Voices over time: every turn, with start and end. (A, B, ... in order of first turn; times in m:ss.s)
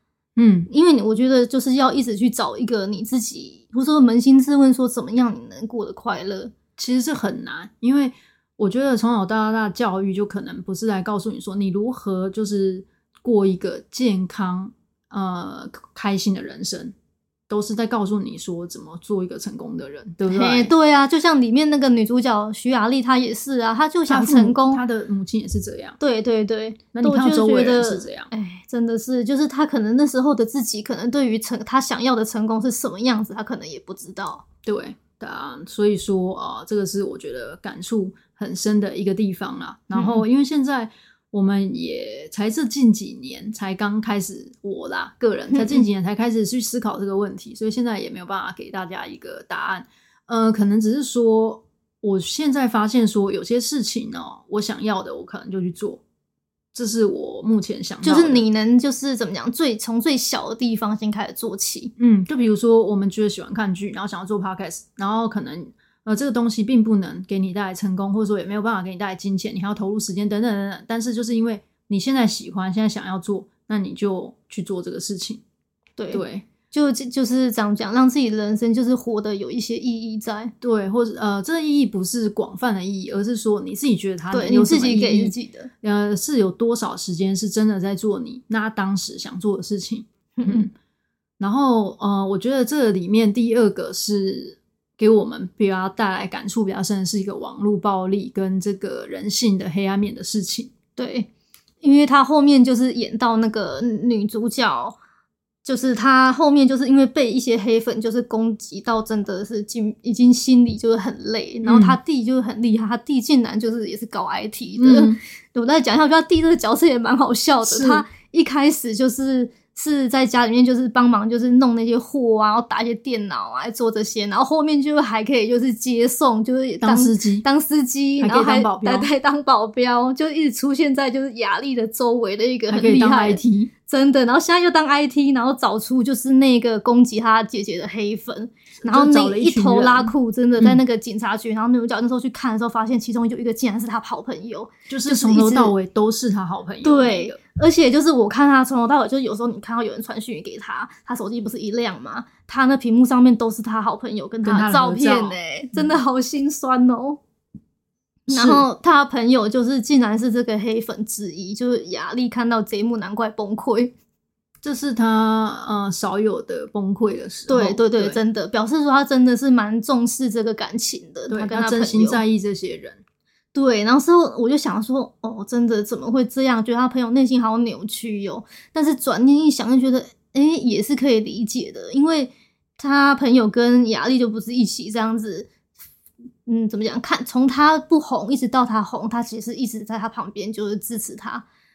0:00.4-0:00.7 A
0:00.7-0:06.5 B
0:06.8-0:16.9 A
0:17.5-0:20.7 A
0:20.3-0:24.8 B
0:24.1-0:26.0 A
0:26.0-0:34.4 B
0:26.9-0:28.3 A
0:34.6-0:56.0 A
0:39.9-0:40.2 B
0:45.5-0:45.8 B
0:56.7-0:58.5 A
0:58.0-1:01.9 B
1:02.0-1:15.4 A
1:16.0-1:20.5 B
1:16.1-1:16.5 A
1:20.6-1:30.7 A
1:24.3-1:25.7 B
1:30.4-1:30.7 B
1:31.4-1:40.7 A
1:41.0-1:41.3 B
1:41.8-1:45.0 B
1:45.6-2:25.7 B
1:51.6-1:52.0 A
1:54.8-1:55.2 A
1:57.6-1:58.1 A
2:06.8-2:07.5 A
2:08.2-2:09.1 A
2:12.7-2:13.7 A
2:18.8-2:20.8 A
2:24.9-2:27.4 A
2:26.8-2:37.2 B
2:34.4-2:36.0 A
2:38.3-2:38.7 A
2:38.3-2:43.9 B
2:44.6-2:48.2 A
2:47.5-2:52.2 B
2:51.3-2:53.0 A
2:53.5-3:05.5 B
3:06.5-3:11.4 B